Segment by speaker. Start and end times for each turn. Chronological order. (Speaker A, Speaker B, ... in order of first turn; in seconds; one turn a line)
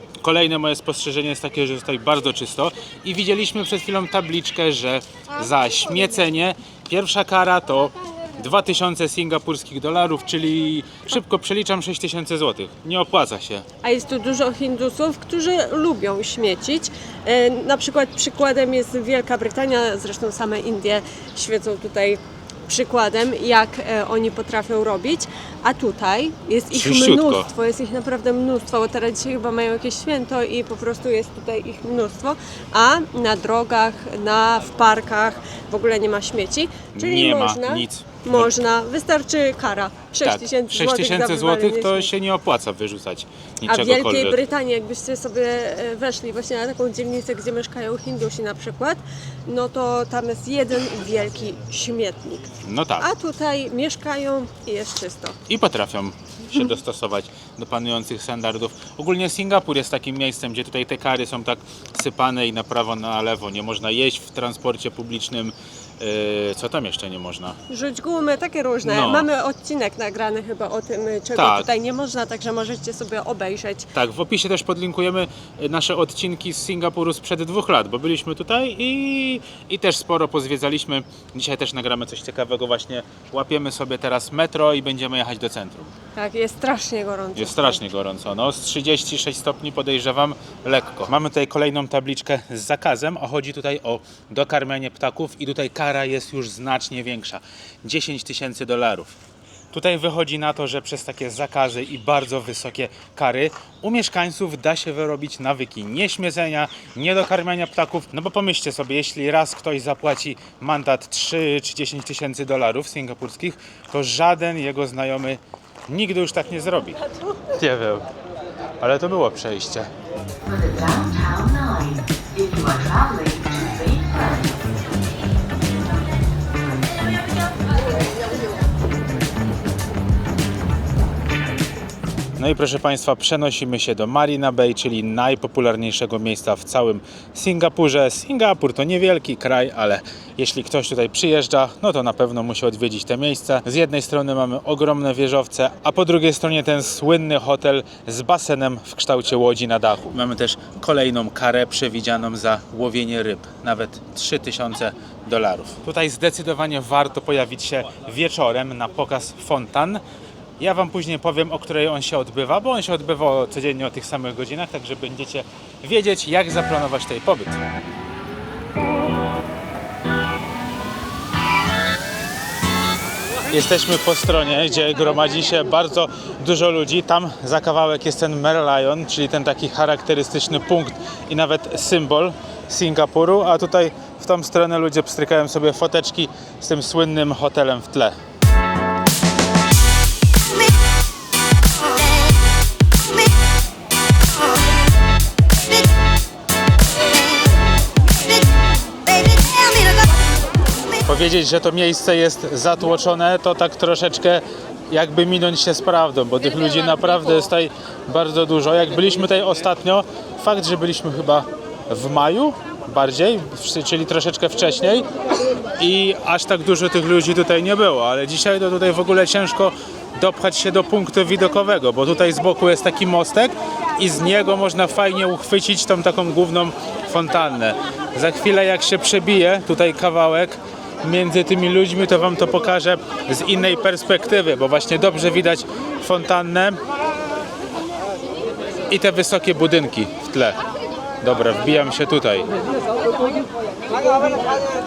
Speaker A: 0.2-13.6
Speaker B: 13.8-42.1
Speaker A: 26.7-27.5
Speaker A: 36.9-38.5
Speaker A: 40.2-44.4
Speaker B: 43.7-52.5
Speaker A: 52.6-53.0
Speaker B: 53.0-55.4
Speaker A: 55.5-67.5
Speaker B: 67.7-73.9
Speaker A: 68.8-69.3
Speaker A: 71.3-71.7
Speaker A: 73.9-85.9
Speaker B: 86.2-87.8
Speaker A: 87.3-99.1
Speaker A: 99.7-118.1
Speaker A: 118.8-119.9
Speaker C: 120.4-124.6
Speaker A: 132.4-160.0
Speaker A: 160.6-167.6
Speaker A: 173.5-188.2
Speaker A: 201.0-215.1
Speaker A: 215.8-236.8
Speaker A: 238.9-240.6
Speaker A: 241.2-242.5